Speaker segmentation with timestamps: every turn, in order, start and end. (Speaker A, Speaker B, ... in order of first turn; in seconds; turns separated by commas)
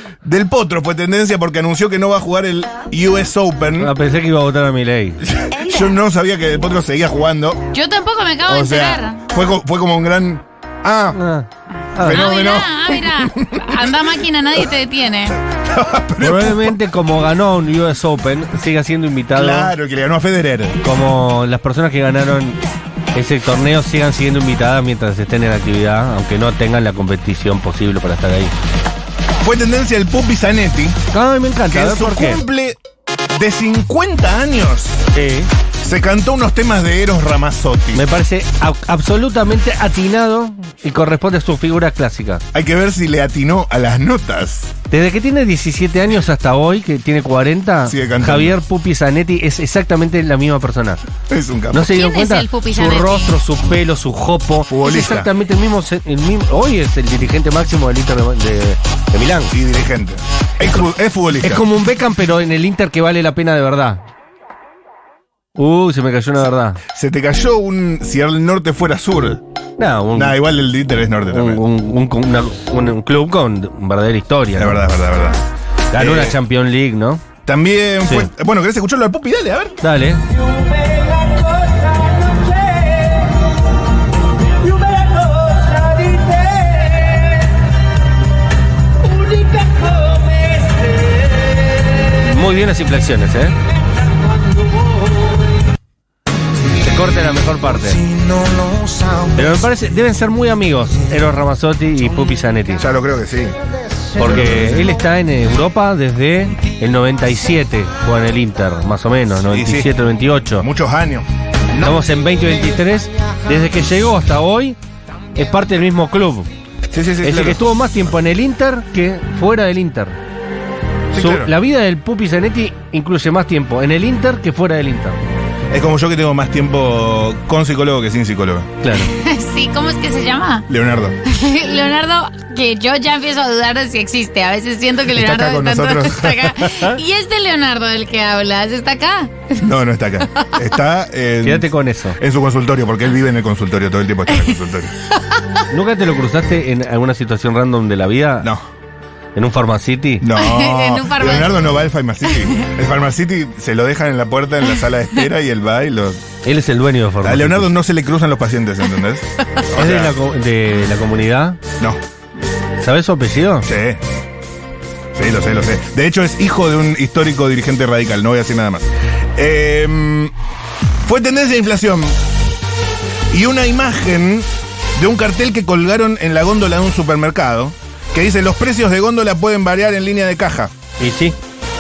Speaker A: 0.2-3.9, Speaker B: 3.8-5.2, Speaker A: 5.2-7.6, Speaker C: 7.7-9.2, Speaker A: 8.5-11.2, Speaker B: 11.2-12.5, Speaker A: 12.0-13.7, Speaker C: 12.0-15.4, Speaker A: 15.7-16.8, Speaker B: 16.2-19.7, Speaker A: 19.4-20.8, Speaker B: 20.8-22.6, Speaker B: 23.1-28.5, Speaker A: 29.4-31.0, Speaker B: 31.1-32.4, Speaker A: 31.7-32.8, Speaker A: 33.4-35.0, Speaker B: 35.1-35.5, Speaker A: 35.8-38.0, Speaker B: 37.9-42.4, Speaker A: 42.5-44.7, Speaker B: 44.9-51.0, Speaker A: 47.9-48.6, Speaker A: 51.3-51.9, Speaker B: 51.7-59.5, Speaker C: 51.9-53.3, Speaker A: 54.7-55.3, Speaker A: 59.5-61.6, Speaker B: 61.4-64.0, Speaker B: 65.6-66.8, Speaker A: 66.9-69.4, Speaker B: 69.8-70.4, Speaker A: 70.2-71.6, Speaker B: 71.3-74.8, Speaker A: 74.6-75.4, Speaker B: 75.9-77.2, Speaker A: 76.0-76.4, Speaker A: 77.5-79.8, Speaker B: 78.0-78.3, Speaker B: 79.8-80.2, Speaker B: 92.2-93.6, Speaker B: 96.8-98.0, Speaker B: 99.3-102.8, Speaker A: 102.8-103.5, Speaker B: 104.2-110.7, Speaker A: 104.2-104.9, Speaker A: 109.5-109.9, Speaker A: 110.6-111.3, Speaker B: 111.8-114.8, Speaker B: 115.3-116.5, Speaker A: 116.9-117.7, Speaker B: 117.2-120.2, Speaker A: 121.1-121.5, Speaker B: 121.2-125.2, Speaker A: 125.7-128.7, Speaker B: 128.8-129.1, Speaker C: 128.9-130.7, Speaker A: 130.7-131.2, Speaker C: 131.3-139.5, Speaker A: 135.1-136.8, Speaker A: 139.6-144.9, Speaker B: 141.4-142.2, Speaker B: 145.7-148.5, Speaker B: 149.3-150.2, Speaker A: 150.2-156.2, Speaker C: 150.4-151.8, Speaker B: 156.4-157.7, Speaker A: 157.2-160.1, Speaker B: 159.8-161.6, Speaker B: 162.8-163.7, Speaker A: 163.7-164.0, Speaker A: 165.2-170.3, Speaker A: 171.0-172.2, Speaker A: 173.3-180.7, Speaker B: 181.0-181.3